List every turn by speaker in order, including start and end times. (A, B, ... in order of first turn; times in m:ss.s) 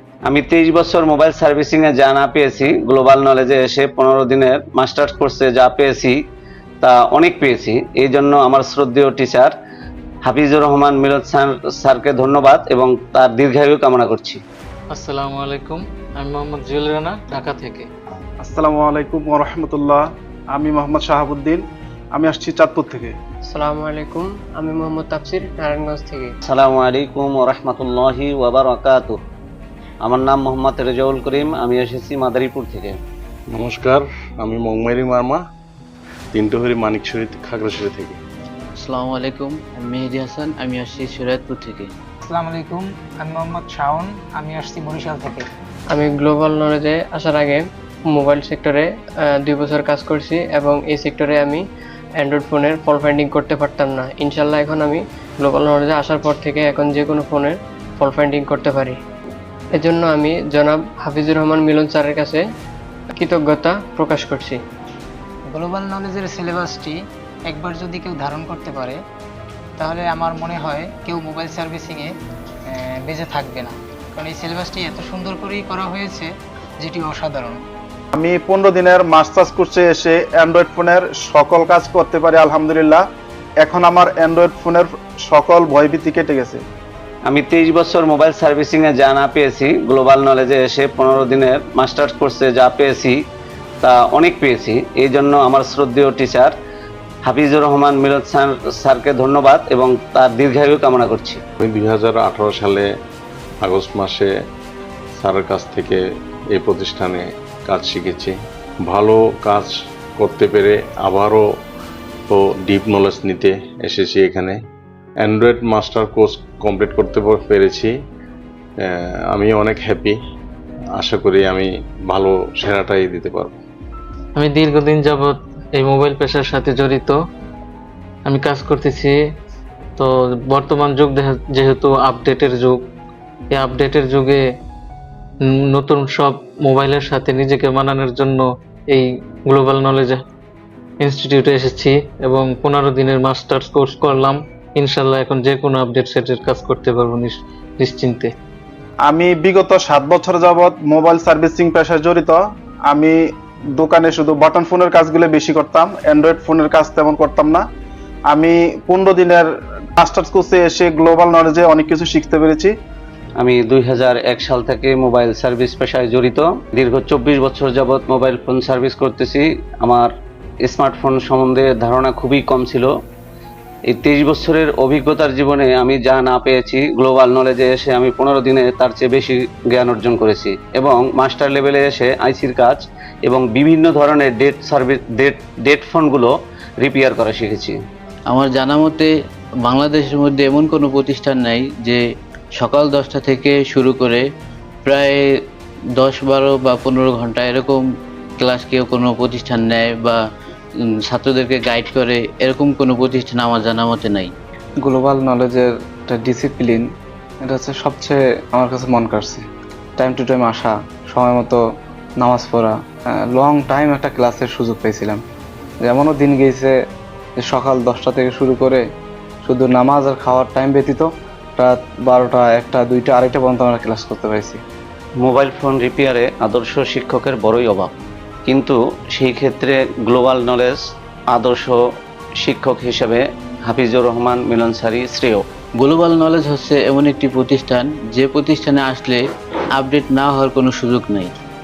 0:00.3-0:06.2 A
0:06.8-0:09.5 A
0:10.2-0:14.4 A
0:14.9-0:17.9 B
0:18.4-0:21.6 C
0:22.1-0:23.1 C
0:23.5-0:26.3 D
0:26.5-0:29.2 A
0:30.0-0:33.0 A
0:33.5-0:35.4 E
0:36.3-0:38.2 E
0:38.8-0:41.9 F
0:42.2-0:45.5 G
0:45.9-0:51.6 D
0:52.2-0:59.0 D
0:59.7-1:02.4 D
1:03.1-1:04.6 D
1:05.5-1:09.0 G
1:09.8-1:12.1 G
1:12.6-1:17.6 G
1:18.1-1:23.0 C
1:23.6-1:26.6 C
1:27.3-1:33.2 A
1:33.8-1:36.5 A
1:37.2-1:41.4 A
1:41.6-1:42.8 E
1:43.6-1:44.3 E
1:45.1-1:46.0 E
1:46.5-1:48.3 E
1:48.8-1:51.4 E
1:52.3-1:54.6 E
1:55.2-1:57.9 E
1:58.8-2:00.2 E
2:01.0-2:03.6 E
2:04.4-2:07.2 B
2:08.2-2:09.1 B
2:10.0-2:12.8 B
2:13.5-2:14.4 B
2:15.4-2:20.2 B
2:21.0-2:28.3 B
2:29.0-2:33.2 C
2:33.8-2:37.6 C
2:38.3-2:42.7 C
2:43.4-2:50.1 A
2:50.6-2:52.9 A
2:53.9-3:07.8 A
3:08.3-3:09.1 F
3:09.6-3:12.0 F
3:12.6-3:14.2 F
3:14.8-3:15.2 F
3:16.0-3:17.8 F
3:18.4-3:20.2 F
3:21.1-3:24.3 F
3:24.8-3:26.8 H
3:27.4-3:29.4 H
3:30.0-3:31.6 H
3:32.2-3:32.7 H
3:33.3-3:35.2 H
3:35.8-3:36.7 H
3:37.4-3:38.8 H
3:39.4-3:44.6 H
3:45.2-3:47.9 A
3:48.5-3:50.8 A
3:51.3-3:51.8 A
3:52.4-3:55.4 A
3:55.8-3:59.2 F
3:59.8-4:01.4 F